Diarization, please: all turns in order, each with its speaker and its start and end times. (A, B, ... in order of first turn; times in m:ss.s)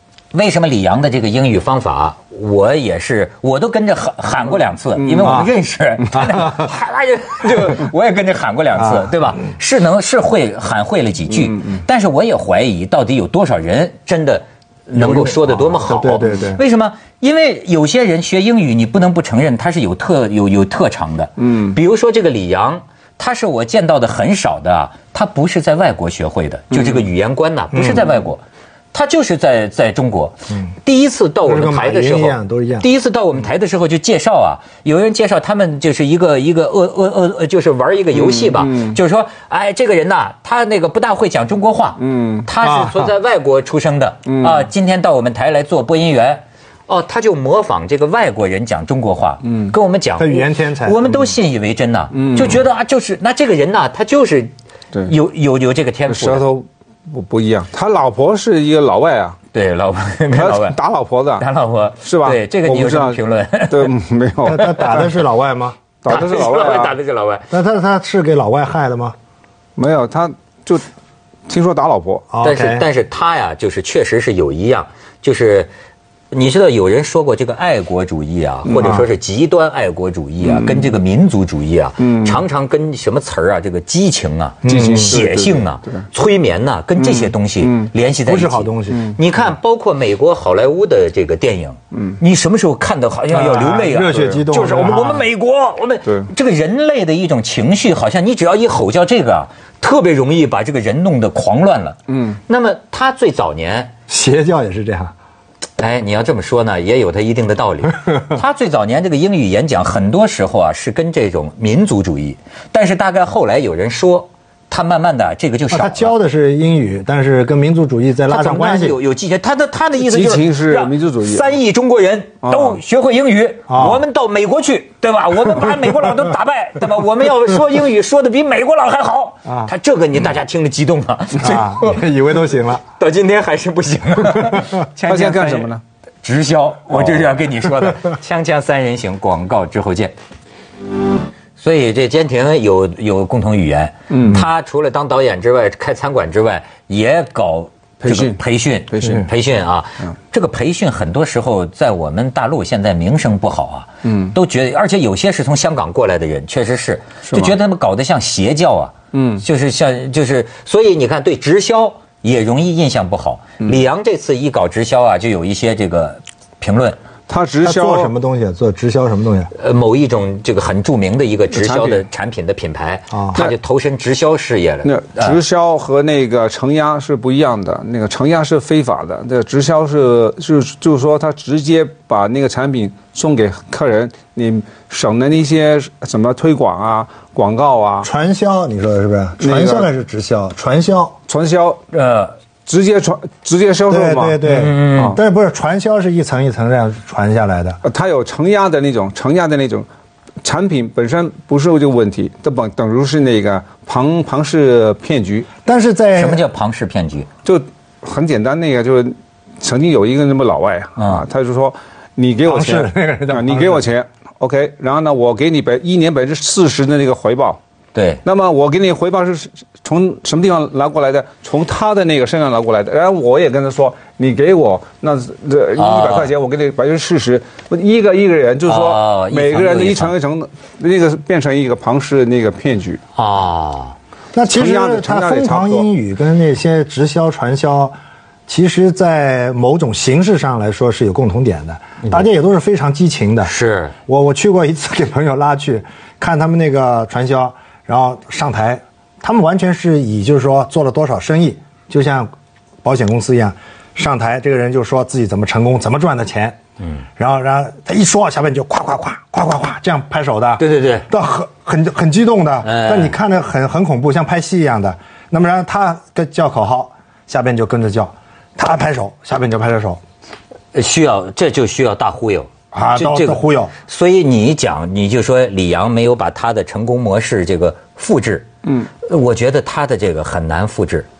0:00.3-0:28.4 A
0:05.0-0:05.4 B
0:05.2-0:05.5 C
0:06.1-0:06.7 C
0:08.8-0:09.2 C
0:15.0-0:16.6 C
0:21.5-0:21.8 B
0:26.7-0:27.0 B
0:27.7-0:28.1 C
0:28.9-0:54.5 A
0:31.5-0:32.9 C
0:38.1-0:39.0 B
0:42.0-0:42.5 B
0:42.6-0:43.1 C
0:44.3-0:44.7 B
0:50.2-0:51.2 C
0:52.1-0:52.6 B
0:55.0-0:56.4 A
0:56.1-0:59.4 B
0:59.5-1:00.8 A
1:00.4-1:01.5 B
1:01.4-1:03.9 A
1:02.0-1:05.2 B
1:04.4-1:05.8 C
1:06.0-1:07.0 B
1:06.1-1:07.5 A
1:07.5-1:09.2 C
1:09.8-1:10.9 B
1:11.5-1:12.3 B
1:12.3-1:12.9 C
1:12.4-1:15.7 A
1:16.3-1:43.9 A
1:18.7-1:19.1 C
1:20.4-1:20.9 B
1:22.0-1:22.4 B
1:24.6-1:25.2 C
1:24.6-1:26.1 B
1:27.0-1:27.9 B
1:28.3-1:29.0 C
1:33.3-1:35.3 C
1:34.1-1:34.5 B
1:42.1-1:42.4 B
1:44.1-1:45.1 C
1:45.8-1:56.2 A
1:55.7-1:59.0 C
1:58.3-2:12.0 A
2:00.0-2:01.5 B
2:02.4-2:02.8 B
2:03.7-2:04.0 C
2:09.5-2:09.7 C
2:11.4-2:12.8 C
2:13.0-2:15.7 A
2:14.5-2:14.8 C
2:15.1-2:15.8 B
2:16.2-2:20.1 A
2:21.6-2:47.0 A
2:24.1-2:24.5 B
2:28.0-2:29.3 B
2:34.1-2:34.3 B
2:37.3-2:37.5 B
2:39.1-2:39.4 B
2:47.3-2:48.1 B
2:47.6-2:49.5 C
2:49.5-2:55.4 A
2:51.5-2:52.0 B
2:53.1-2:53.4 C
2:54.8-3:08.1 B
3:08.0-3:11.2 C
3:09.4-3:09.9 B
3:11.3-3:11.8 B
3:11.9-3:12.4 A
3:12.7-3:14.4 B
3:13.9-3:17.8 C
3:14.4-3:15.2 A
3:17.8-3:19.9 B
3:20.4-3:25.5 B
3:25.6-3:26.4 C
3:26.2-3:27.3 A
3:27.4-3:37.6 B
3:31.0-3:31.2 A
3:32.5-3:33.9 C
3:37.9-3:38.2 A
3:38.2-3:53.0 B
3:45.8-3:46.3 A
3:48.7-3:50.1 A
3:53.2-3:54.0 A
3:54.3-3:58.0 C
3:54.5-3:55.9 B
3:58.5-4:03.5 C
4:03.4-4:04.0 A
4:04.1-4:12.3 C
4:12.8-4:16.6 C
4:17.2-4:30.0 C
4:20.6-4:21.1 A
4:22.6-4:23.2 A
4:30.7-4:38.5 A
4:32.7-4:33.7 C
4:39.0-4:41.1 A